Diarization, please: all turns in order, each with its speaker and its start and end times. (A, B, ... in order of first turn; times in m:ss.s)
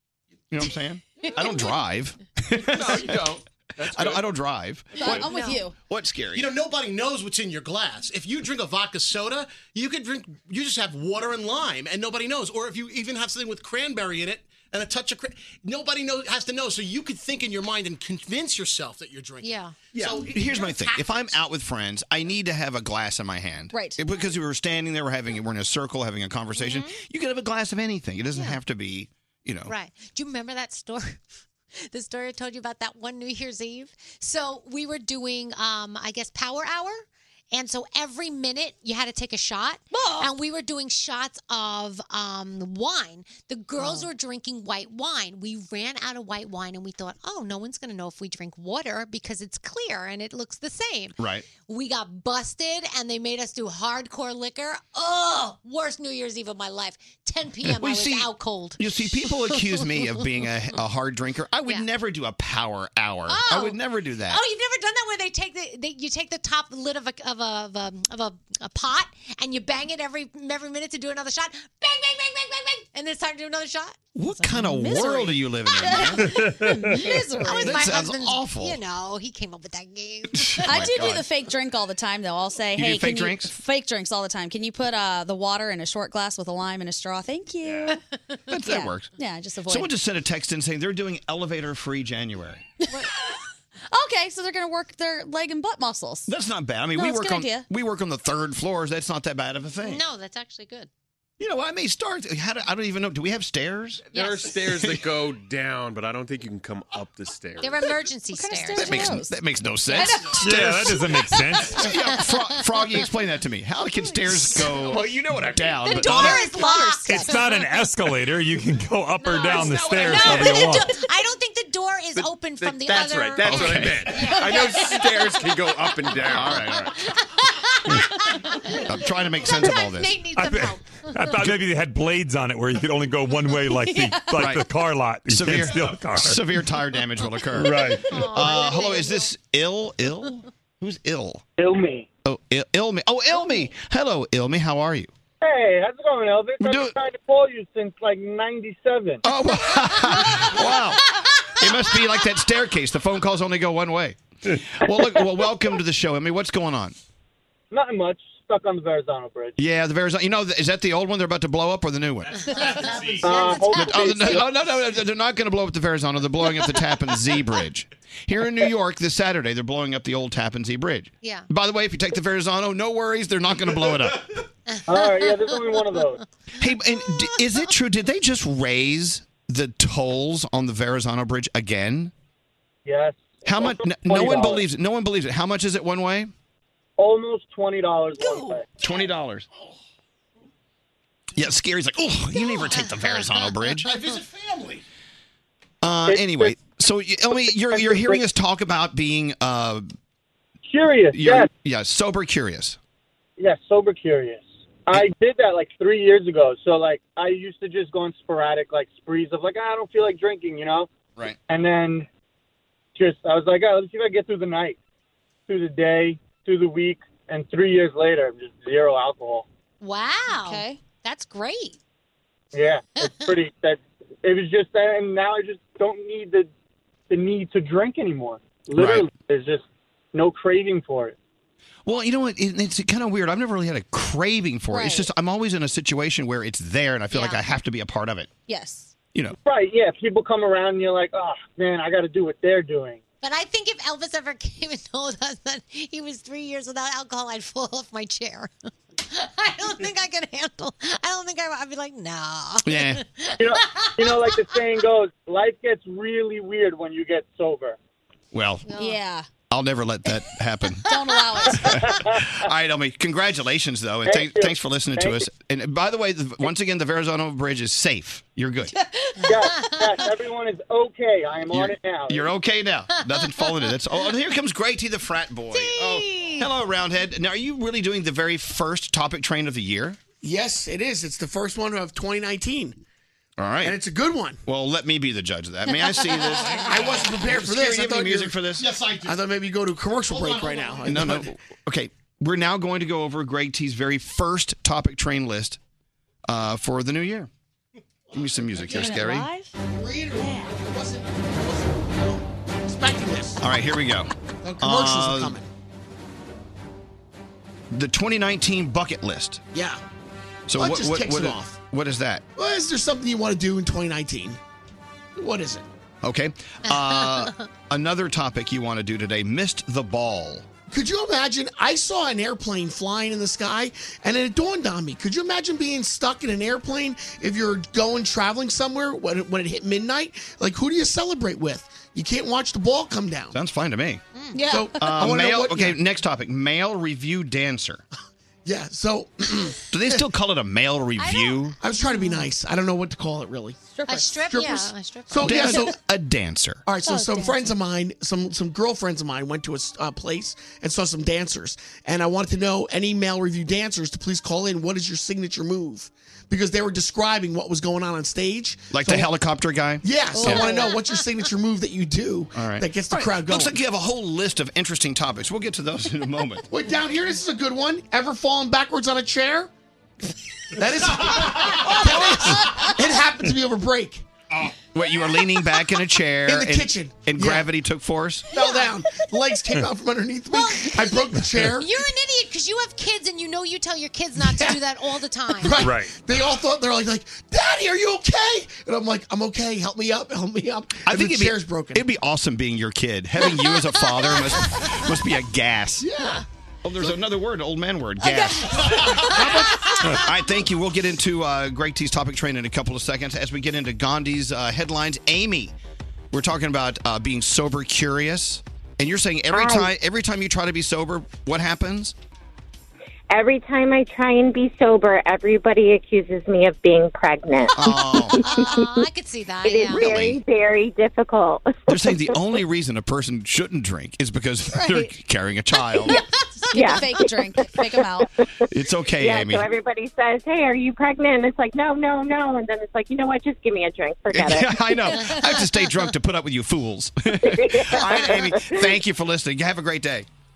0:00.5-0:05.4 A
0:01.2-0:01.7 B
0:02.7-0:04.3 C
0:05.0-0:05.8 D
0:05.1-0:05.7 B
0:05.9-0:06.5 A
0:06.3-0:20.9 E
0:19.4-0:19.8 B
0:20.0-0:20.2 C
0:20.0-0:29.7 A
0:23.7-0:24.0 D
0:26.6-0:27.0 B
0:28.3-0:28.6 B
0:29.7-0:31.2 B
0:31.8-1:00.2 B
0:39.9-0:40.3 D
0:43.8-0:44.1 D
0:51.2-0:51.5 A
0:57.6-1:04.4 A
1:03.3-1:03.8 B
1:04.3-1:14.0 B
1:14.2-1:16.5 A
1:14.4-1:17.8 D
1:14.9-1:16.3 B
1:17.4-1:21.2 B
1:17.4-1:18.8 A
1:20.3-1:21.2 A
1:20.6-1:28.0 D
1:22.8-1:23.5 A
1:28.5-1:29.1 A
1:28.6-1:29.9 D
1:29.7-1:32.7 A
1:32.9-1:33.4 D
1:33.9-1:36.3 D
1:36.3-1:40.0 A
1:37.0-1:37.7 D
1:39.8-1:40.9 B
1:41.4-1:44.0 A
1:44.1-1:48.0 C
1:44.1-1:44.6 B
1:44.7-1:45.1 A
1:47.6-1:49.1 B
1:48.3-1:49.4 D
1:48.8-1:51.1 A
1:49.9-1:50.3 D
1:49.9-1:50.2 B
1:50.4-1:51.9 F
1:51.2-1:52.6 B
1:51.7-1:56.5 A
1:54.8-1:55.8 C
1:55.7-1:57.7 B
1:56.0-1:57.4 D
1:57.0-2:00.9 F
1:59.2-2:11.5 B
1:59.6-2:00.0 C
2:02.2-2:06.7 C
2:03.4-2:04.3 A
2:06.3-2:07.0 A
2:08.8-2:10.2 A
2:10.4-2:16.4 F
2:13.9-2:14.2 D
2:14.4-2:14.7 A
2:15.3-2:21.4 A
2:17.6-2:18.2 F
2:17.7-2:19.3 B
2:21.6-2:22.1 G
2:22.2-2:25.1 A
2:25.4-2:29.2 G
2:26.6-2:27.0 A
2:29.2-2:37.0 A
2:29.9-2:30.5 B
2:37.7-2:39.6 G
2:39.6-2:42.6 A
2:42.5-2:44.3 B
2:42.6-2:43.4 C
2:42.8-2:43.5 E
2:43.2-2:44.4 G
2:43.7-2:54.2 A
2:51.2-2:51.5 B
2:54.7-2:56.1 B
2:54.9-2:56.2 G
2:56.6-3:02.1 A
3:02.9-3:04.6 G
3:03.4-3:06.3 A
3:07.0-3:08.7 G
3:08.2-3:08.6 D
3:08.8-3:09.5 A
3:11.4-3:13.9 A
3:12.5-3:14.0 B
3:13.9-3:14.8 E
3:15.8-3:19.9 A
3:16.1-3:16.5 G
3:17.7-3:18.2 G
3:20.7-3:21.5 G
3:21.1-3:22.8 A
3:23.4-3:30.9 G
3:31.5-3:32.1 G
3:33.0-3:34.8 G
3:35.5-3:39.5 G
3:39.8-3:41.8 B
3:40.3-3:40.8 D
3:42.5-3:46.5 G
3:43.0-3:43.3 B
3:47.1-3:51.2 G
3:48.7-3:49.1 A
3:51.9-3:58.3 A
3:54.7-3:55.1 D
3:57.1-3:57.4 B
3:58.5-3:58.9 D
3:59.4-4:03.0 G
4:03.2-4:08.5 B
4:09.1-4:14.6 B
4:12.6-4:13.0 A
4:13.4-4:17.8 G
4:18.3-4:18.7 A
4:18.7-4:19.0 B
4:18.8-4:19.3 D
4:19.5-4:20.9 A
4:20.9-4:22.0 D
4:20.9-4:21.6 B
4:21.6-4:28.7 A
4:21.9-4:22.2 G
4:24.0-4:25.2 G
4:29.2-4:30.0 B
4:29.3-4:32.3 G
4:31.5-4:40.0 A
4:33.2-4:33.7 B
4:35.5-4:36.5 B
4:40.2-4:42.8 H
4:43.4-4:43.8 A
4:43.6-4:44.4 H
4:44.4-4:48.7 A
4:46.6-4:48.4 H
4:48.6-4:49.2 E
4:49.0-4:51.3 H
4:50.1-4:51.0 E
4:50.8-4:55.6 A
4:56.3-4:57.3 A
4:58.1-4:59.3 A
4:58.6-4:59.0 H
4:58.7-4:59.5 D
4:59.6-5:03.4 H
5:00.2-5:00.5 D
5:03.4-5:05.4 A
5:04.4-5:05.5 H
5:07.7-5:09.4 A
5:09.5-5:09.8 H
5:10.5-5:12.2 A
5:10.6-5:11.6 H
5:12.4-5:14.4 H
5:15.2-5:15.6 H
5:16.0-5:20.5 A
5:16.7-5:17.5 B
5:20.7-5:33.4 H
5:33.3-5:34.0 A
5:34.4-5:35.0 D
5:34.4-5:35.8 H
5:34.8-5:37.8 A
5:38.4-5:40.0 H
5:39.7-5:41.6 A
5:41.0-5:41.6 B
5:41.6-5:43.6 H
5:43.7-5:44.1 D
5:43.9-5:45.7 B
5:44.3-5:45.8 H
5:45.2-5:46.6 A
5:46.7-5:59.1 H
5:46.9-5:47.4 D
5:58.7-6:00.6 A
5:59.8-6:03.6 H
6:00.2-6:00.8 D
6:02.3-6:06.5 A
6:06.5-6:09.5 H
6:10.6-6:14.0 H
6:14.7-6:18.3 A
6:16.3-6:17.5 H
6:18.3-6:21.7 H
6:18.4-6:18.7 B
6:20.3-6:25.7 B
6:24.2-6:24.6 H
6:25.3-6:31.8 H
6:25.6-6:26.0 F
6:30.9-6:36.0 A
6:35.8-6:36.2 H
6:36.6-6:45.5 A
6:39.1-6:39.6 H
6:46.1-6:51.9 A
6:49.3-6:49.7 I
6:53.1-6:58.8 I
6:57.5-6:58.4 A
6:58.2-6:59.9 B
6:59.4-7:02.4 I
6:59.7-7:00.2 A
7:01.7-7:06.0 A
7:04.6-7:04.9 D
7:06.5-7:07.0 I
7:06.5-7:08.1 D
7:07.6-7:08.4 I
7:08.5-7:09.5 A
7:09.0-7:15.0 I
7:14.1-7:20.1 A
7:14.9-7:15.7 B
7:17.2-7:18.8 I